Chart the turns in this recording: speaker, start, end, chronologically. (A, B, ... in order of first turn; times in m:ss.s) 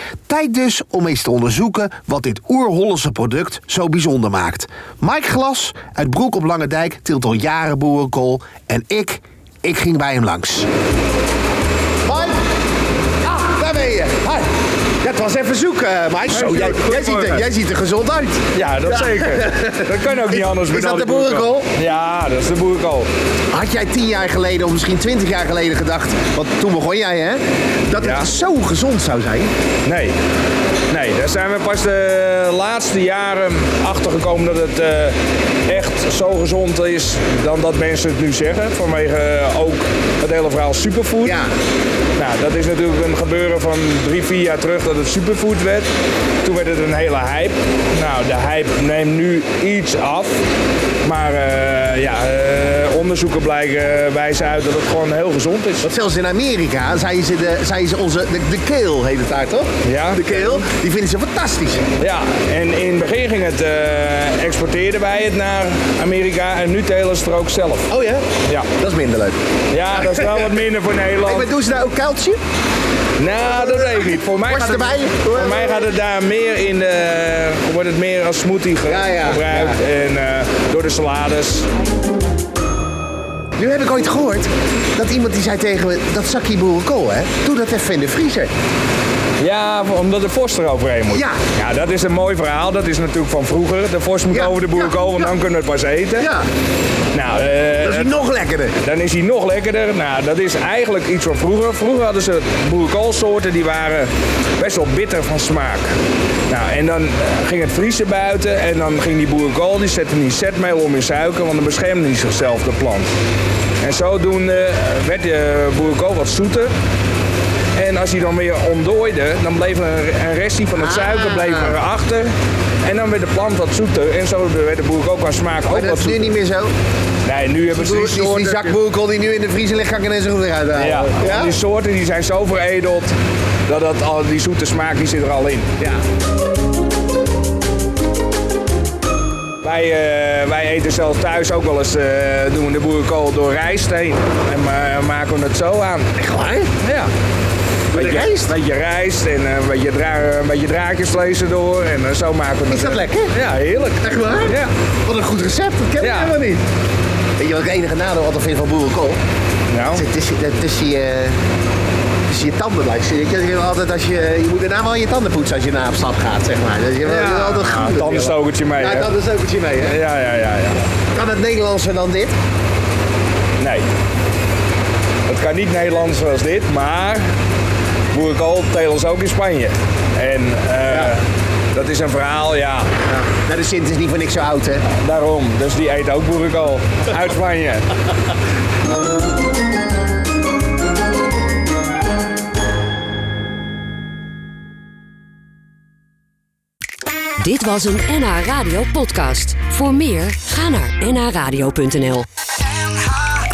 0:00.3-0:10.7 A
0:12.0-0:12.4 A
0:13.2-0:14.5 A
0:15.0-0:21.7 A
0:16.3-0:17.5 B
0:18.5-0:23.1 B
0:23.5-0:29.5 A
0:28.0-0:28.3 B
0:29.8-0:30.2 B
0:30.9-0:35.2 B
0:35.7-0:41.4 B
0:41.2-0:41.5 A
0:42.2-0:45.9 B
0:46.4-0:50.4 B
0:51.0-0:55.9 B
0:55.8-1:01.8 A
0:59.8-1:00.6 B
1:02.0-1:07.9 B
1:07.9-1:09.4 A
1:09.7-1:11.5 B
1:10.0-1:10.5 A
1:11.2-1:12.4 A
1:13.2-1:21.7 B
1:13.6-1:15.9 A
1:18.9-1:19.8 A
1:23.6-1:28.5 A
1:29.4-1:36.3 B
1:31.1-1:31.4 A
1:34.3-1:35.3 A
1:36.2-1:36.4 A
1:37.1-1:38.1 B
1:37.8-1:38.8 A
1:38.8-1:45.9 B
1:46.5-1:53.1 B
1:53.8-1:56.7 B
1:57.7-2:02.3 B
2:00.8-2:01.8 A
2:02.8-2:06.3 B
2:05.7-2:06.7 A
2:07.2-2:08.8 B
2:07.7-2:11.6 A
2:10.8-2:13.1 B
2:13.7-2:15.7 B
2:19.6-2:26.1 B
2:26.2-2:26.7 A
2:26.8-2:27.1 B
2:27.9-2:28.5 A
2:27.9-2:34.7 B
2:32.7-2:33.3 A
2:34.0-2:36.6 A
2:36.0-2:36.4 B
2:37.4-2:39.2 A
2:39.7-2:40.0 B
2:39.9-2:41.4 A
2:42.3-2:50.0 A
2:47.0-2:49.1 B
2:49.8-2:50.8 B
2:51.1-2:52.3 A
2:53.6-2:53.8 B
2:55.3-2:57.2 B
2:58.1-3:02.9 B
3:00.9-3:01.2 A
3:03.1-3:04.8 A
3:04.9-3:07.9 B
3:17.4-3:22.2 C